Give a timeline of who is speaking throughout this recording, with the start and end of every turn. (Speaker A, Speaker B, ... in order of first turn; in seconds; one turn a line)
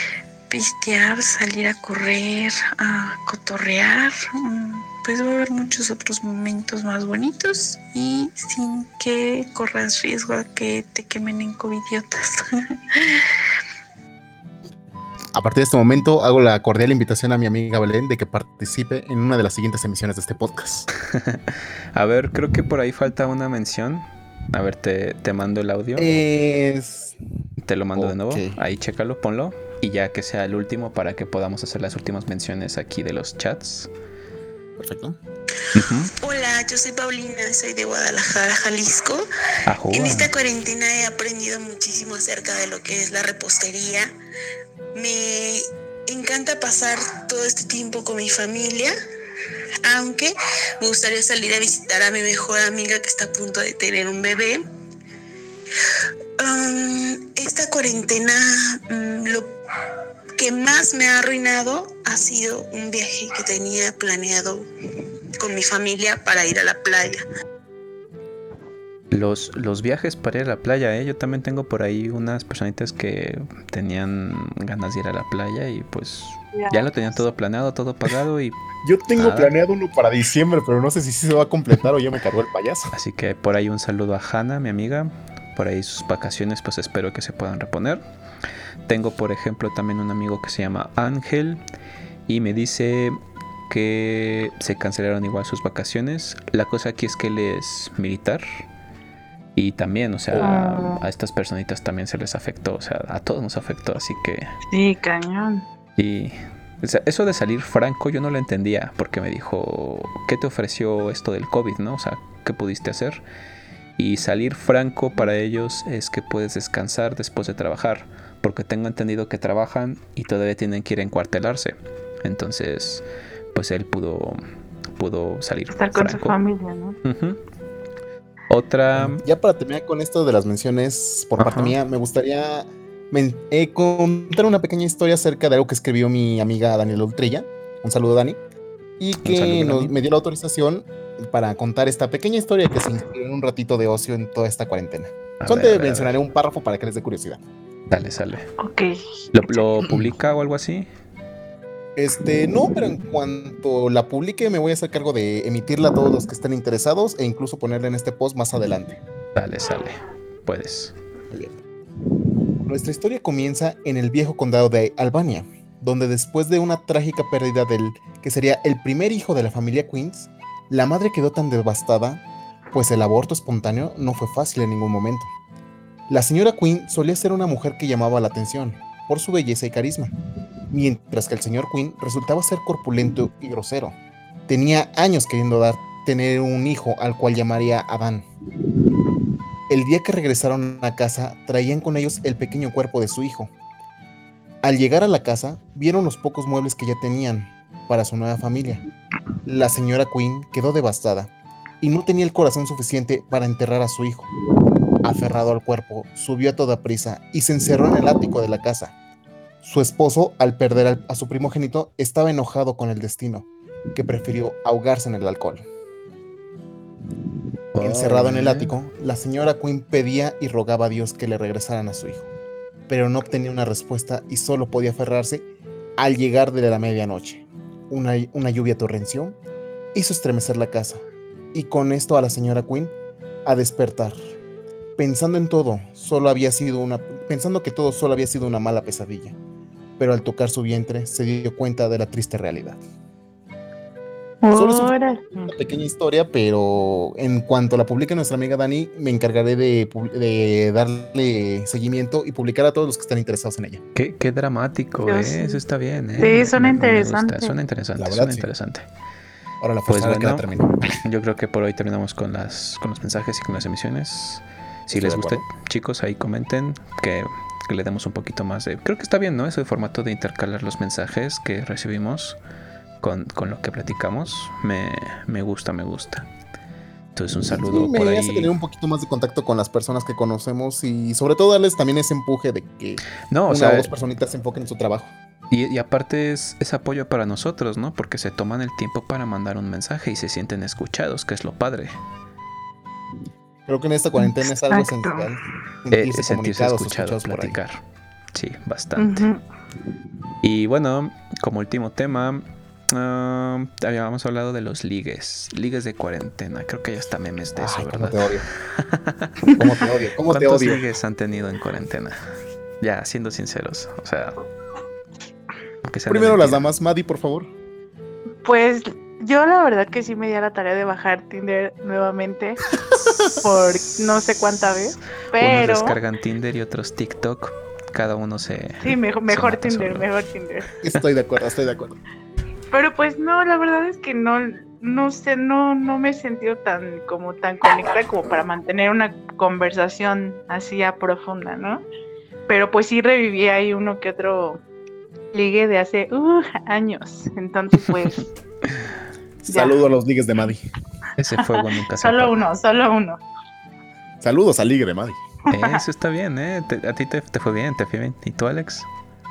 Speaker A: 0.5-13.3
Speaker B: 15.3-20.9
Speaker C: 21.0-26.2
Speaker B: 25.9-27.2
Speaker C: 27.6-33.9
Speaker B: 27.9-28.6
Speaker B: 34.8-35.2
Speaker C: 35.7-36.1
Speaker A: 36.1-39.2
Speaker C: 39.6-40.3
Speaker A: 39.9-44.1
Speaker A: 44.9-48.9
Speaker A: 49.8-54.6
Speaker A: 56.4-59.5
Speaker A: 60.4-64.6
Speaker A: 65.4-67.2
Speaker C: 69.1-78.6
Speaker D: 76.5-76.9
Speaker B: 78.8-82.9
Speaker C: 79.2-79.5
Speaker C: 82.9-88.0
Speaker C: 88.8-91.6
Speaker C: 92.3-93.2
Speaker C: 93.7-98.6
Speaker C: 99.5-104.5
Speaker D: 100.4-101.0
Speaker D: 104.7-105.6
Speaker C: 106.0-113.2
Speaker C: 114.0-124.4
Speaker C: 125.0-126.3
Speaker D: 125.7-127.0
Speaker C: 127.0-127.4
Speaker C: 128.5-129.2
Speaker B: 128.9-138.4
Speaker C: 131.4-131.8
Speaker B: 139.0-147.4
Speaker C: 139.2-139.9
Speaker C: 145.4-146.2
Speaker C: 147.9-148.5
Speaker D: 148.6-149.7
Speaker C: 149.3-150.9
Speaker B: 151.9-159.0
Speaker C: 159.3-160.9
Speaker B: 161.3-161.6
Speaker B: 162.6-172.2
Speaker B: 172.7-175.3
Speaker B: 176.1-180.1
Speaker B: 180.7-184.0
Speaker B: 184.5-188.3
Speaker B: 189.7-193.5
Speaker B: 194.6-198.8
Speaker B: 199.4-204.3
Speaker B: 205.0-208.9
Speaker B: 209.6-215.6
Speaker C: 217.7-218.7
Speaker B: 217.8-222.3
Speaker B: 222.9-229.3
Speaker B: 229.9-234.2
Speaker B: 235.0-239.3
Speaker B: 240.0-242.8
Speaker D: 244.4-245.5
Speaker B: 244.5-244.9
Speaker B: 245.4-253.8
Speaker C: 253.9-258.9
Speaker D: 255.0-255.6
Speaker D: 256.2-257.5
Speaker B: 258.0-258.5
Speaker B: 259.6-261.0
Speaker C: 259.9-260.4
Speaker C: 261.0-272.4
Speaker B: 264.9-265.4
Speaker C: 273.0-276.3
Speaker C: 277.1-278.5
Speaker B: 277.5-285.1
Speaker C: 283.3-283.9
Speaker C: 285.5-292.0
Speaker B: 293.7-297.6
Speaker D: 294.2-295.3
Speaker C: 295.9-299.3
Speaker D: 299.0-299.4
Speaker C: 300.4-309.3
Speaker B: 307.6-308.4
Speaker B: 309.5-310.8
Speaker C: 310.3-312.2
Speaker C: 312.8-314.4
Speaker C: 315.8-316.7
Speaker B: 316.1-317.5
Speaker D: 318.4-322.7
Speaker B: 322.9-323.4
Speaker D: 323.2-325.9
Speaker C: 325.4-330.1
Speaker D: 328.8-330.7
Speaker B: 330.8-332.0
Speaker D: 332.7-341.8
Speaker D: 342.5-344.6
Speaker D: 345.3-348.3
Speaker B: 349.4-350.6
Speaker D: 349.5-349.8
Speaker C: 351.2-352.3
Speaker D: 351.4-353.2
Speaker B: 354.2-355.2
Speaker C: 355.5-358.9
Speaker D: 355.5-355.8